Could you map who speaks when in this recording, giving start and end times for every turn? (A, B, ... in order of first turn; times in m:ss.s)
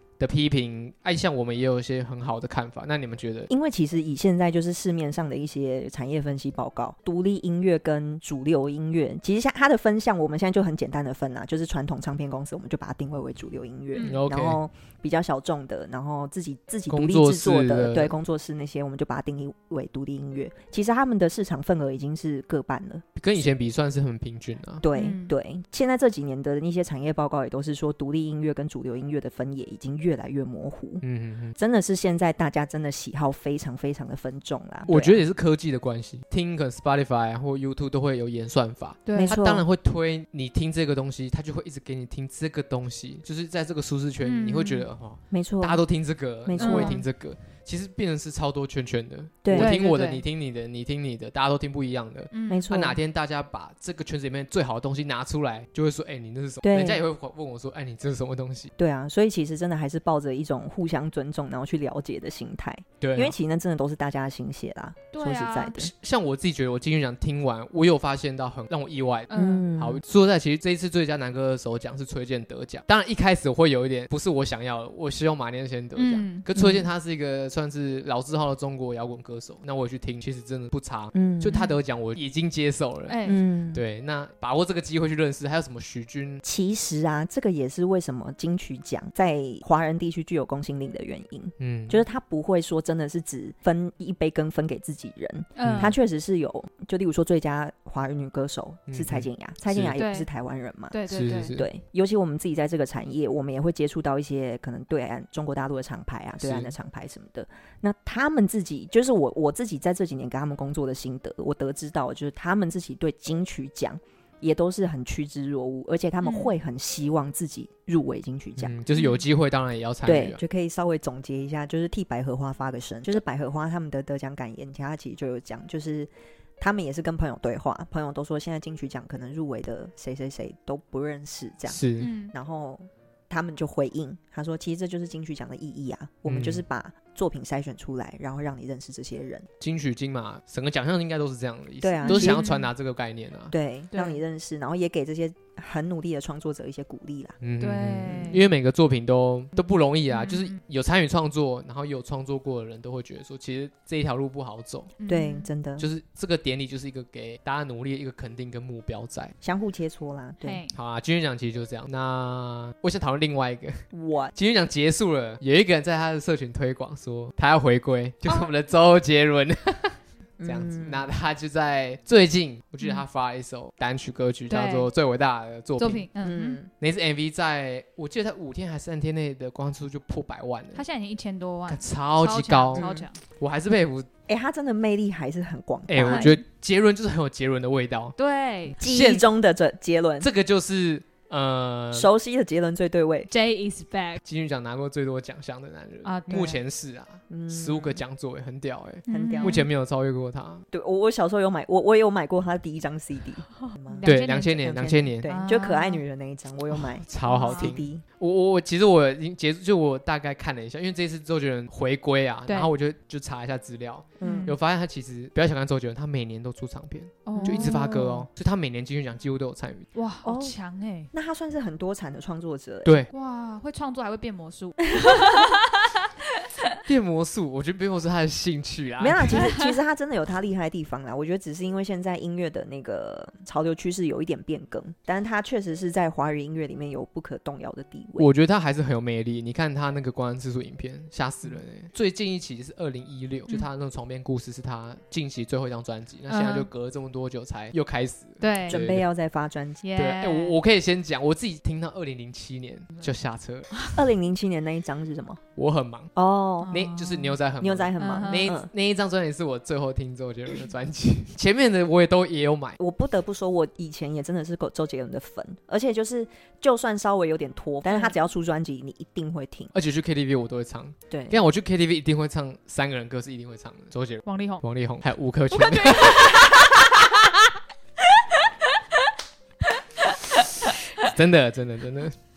0:00.2-0:03.5 A
0:03.5-0:23.5 B
0:13.9-0:14.2 C
0:14.0-0:14.6 A
0:16.9-0:18.1 A
0:23.2-0:24.8 A
0:24.8-0:31.0 B
0:24.9-0:25.3 C
0:31.0-0:31.6 A
0:31.6-0:35.2 B
0:34.9-0:58.7 A
0:39.0-0:39.4 C
0:39.1-0:39.6 B
0:44.2-0:44.9 C
0:45.3-0:45.8 B
0:46.4-0:47.0 B
0:46.6-0:47.0 C
0:49.4-0:49.8 B
0:49.5-0:50.2 C
0:52.3-0:52.7 C
0:52.5-0:53.0 B
0:56.6-0:57.0 B
0:58.8-1:05.9 B
1:03.0-1:03.4 A
1:05.1-1:05.8 C
1:05.8-1:23.2 A
1:09.3-1:09.6 C
1:09.3-1:10.0 B
1:16.0-1:16.4 C
1:16.5-1:16.9 B
1:21.1-1:21.6 B
1:23.1-1:23.4 C
1:23.2-1:23.8 B
1:23.7-1:26.4 A
1:26.4-1:41.0 B
1:31.6-1:32.0 A
1:35.6-1:35.9 C
1:35.6-1:36.0 A
1:38.9-1:40.0 A
1:40.0-1:40.3 C
1:40.9-1:41.5 C
1:41.1-1:41.6 A
1:41.5-1:58.7 B
1:46.4-1:46.7 A
1:56.2-1:56.5 C
1:58.6-2:00.4 A
1:58.9-1:59.2 C
2:00.0-2:19.5 B
2:11.7-2:12.1 A
2:12.0-2:12.3 C
2:16.2-2:16.6 A
2:19.6-2:23.5 A
2:21.8-2:22.5 B
2:22.0-2:22.7 C
2:23.5-2:27.4 B
2:23.9-2:24.2 C
2:27.4-2:34.9 A
2:27.6-2:28.5 C
2:28.0-2:28.4 B
2:30.1-2:30.6 C
2:35.0-2:35.5 C
2:35.1-2:35.9 B
2:35.8-2:39.3 A
2:39.4-2:40.6 B
2:40.4-2:40.7 C
2:40.7-2:56.0 A
2:43.9-2:44.3 B
2:50.4-2:51.0 B
2:54.5-2:54.9 C
2:55.8-2:56.6 C
2:56.2-2:56.7 B
2:56.8-3:00.8 A
3:00.7-3:03.2 C
3:01.7-3:04.1 A
3:02.7-3:03.1 B
3:04.3-3:06.3 B
3:05.9-3:08.1 A
3:06.0-3:06.3 C
3:08.2-3:08.8 C
3:08.8-3:10.3 B
3:08.8-3:09.2 A
3:10.2-3:12.1 A
3:11.9-3:13.3 B
3:13.3-3:14.2 C
3:14.2-3:20.6 A
3:16.0-3:16.6 C
3:17.3-3:18.0 B
3:19.1-3:19.7 C
3:19.1-3:19.7 B
3:20.7-3:28.0 B
3:23.8-3:26.0 C
3:24.0-3:25.3 A
3:26.7-3:39.9 A
3:27.3-3:27.7 C
3:32.5-3:32.7 C
3:34.2-3:34.6 B
3:34.2-3:34.6 C
3:37.2-3:38.2 C
3:37.3-3:37.8 B
3:39.9-3:41.1 C
3:40.2-3:40.6 B
3:41.1-3:43.0 B
3:42.8-3:43.1 A
3:43.1-3:46.6 C
3:44.9-3:45.5 B
3:46.8-3:49.4 A
3:49.0-3:58.3 B
3:49.3-3:49.7 C
3:58.2-4:09.0 A
4:06.3-4:06.7 C
4:08.4-4:08.8 C
4:08.7-4:09.8 B
4:09.8-4:10.6 C
4:10.0-4:13.7 A
4:13.7-4:14.0 C
4:13.9-4:15.4 B
4:15.6-4:16.1 A
4:16.2-4:16.8 B
4:16.6-4:17.3 C
4:16.7-4:22.8 A
4:17.6-4:18.7 B
4:18.0-4:18.5 C
4:22.8-4:29.7 B
4:29.7-4:36.4 A
4:31.1-4:31.4 B
4:34.2-4:34.6 C
4:35.5-4:37.5 C
4:38.3-4:38.7 C
4:40.0-4:40.8 C
4:41.0-4:42.2 A